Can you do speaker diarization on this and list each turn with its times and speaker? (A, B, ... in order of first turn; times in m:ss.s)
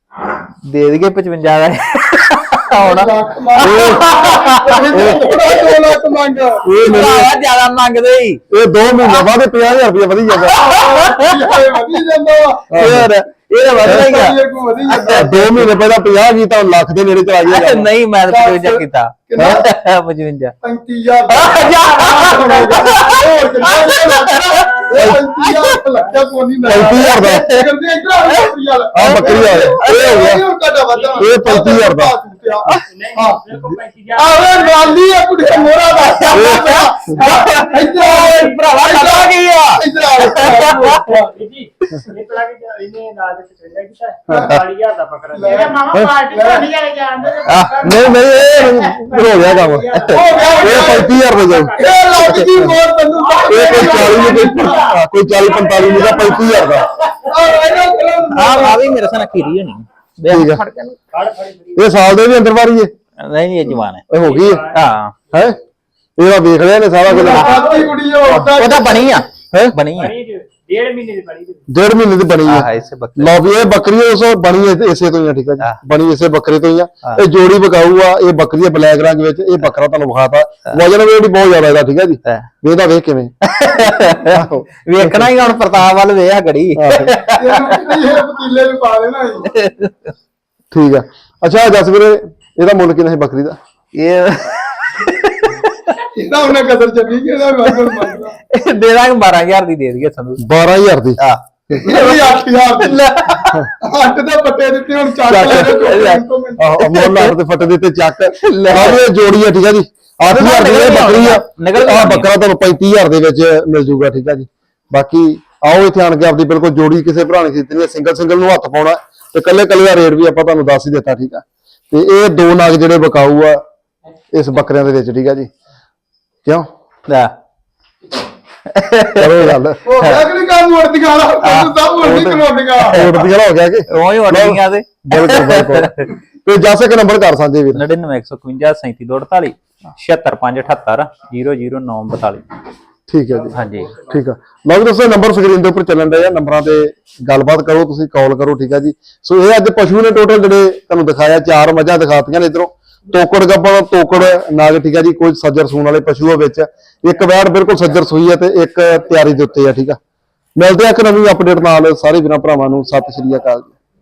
0:00.6-0:05.8 A
0:02.7-0:06.7 B
0:03.6-0:04.3 C
0:04.9-0:05.4 C
0:06.6-0:07.3 C
0:06.7-0:08.4 A
0:08.5-0:10.6 C
0:10.4-0:12.9 B
0:10.6-0:11.6 A
0:12.7-0:13.1 C
0:12.7-0:15.6 A
0:13.7-0:15.5 B
0:13.8-0:14.2 C
0:15.0-0:17.9 C
0:17.5-0:20.5 A
0:18.3-0:18.7 B
0:19.3-0:19.7 B
0:20.6-0:33.4 B
0:21.3-0:25.8 A
0:22.1-0:25.0 D
0:24.9-0:25.2 C
0:26.6-0:27.5 C
0:26.7-0:27.6 A
0:28.2-0:30.3 A
0:28.9-0:30.4 C
0:30.9-0:31.4 D
0:31.2-0:32.1 C
0:32.9-0:36.5 D
0:34.2-0:41.3 B
0:35.9-0:41.0 A
0:36.3-0:36.7 C
0:37.2-0:38.7 D
0:40.7-0:52.4 D
0:44.3-0:44.6 B
0:44.3-0:44.6 C
0:45.3-0:46.7 B
0:45.9-0:46.2 C
0:47.4-0:47.9 A
0:47.8-0:49.9 C
0:49.9-0:50.2 A
0:50.1-0:51.2 B
0:50.6-0:52.7 C
0:51.7-0:54.8 B
0:52.3-0:52.7 A
0:53.2-0:57.8 D
0:53.5-0:56.9 C
0:57.2-0:58.8 B
0:58.3-1:01.0 A
1:00.3-1:00.6 C
1:01.1-1:01.8 D
1:01.8-1:02.9 C
1:03.2-1:04.0 A
1:04.1-1:04.7 C
1:04.1-1:04.9 D
1:04.7-1:05.1 A
1:05.3-1:05.6 C
1:06.2-1:07.8 C
1:07.0-1:09.2 B
1:07.3-1:10.1 A
1:07.4-1:07.9 D
1:10.0-1:11.7 D
1:11.7-1:23.3 C
1:12.4-1:13.4 A
1:22.2-1:22.5 A
1:23.4-1:27.9 A
1:24.2-1:25.3 C
1:26.7-1:27.2 C
1:27.3-1:29.5 B
1:29.4-1:30.1 A
1:30.7-1:33.6 C
1:33.9-1:36.0 A
1:36.0-1:38.4 B
1:37.7-1:40.4 A
1:40.4-1:41.2 C
1:41.2-1:43.7 A
1:41.7-1:43.0 B
1:43.8-1:46.8 B
1:45.2-1:45.9 C
1:45.4-1:46.2 A
1:46.6-2:03.6 C
1:46.8-1:47.3 A
1:48.4-1:49.0 A
1:50.2-1:52.3 A
2:04.3-2:05.5 C
2:06.4-2:06.7 C
2:07.1-2:07.3 A
2:08.6-2:10.2 A
2:09.2-2:09.8 C
2:09.8-2:13.2 B
2:11.4-2:13.2 A
2:12.9-2:15.9 C
2:13.9-2:16.1 A
2:16.4-2:17.8 C
2:17.7-2:22.4 A
2:23.1-2:40.0 C
2:23.5-2:24.0 A
2:40.6-2:43.7 C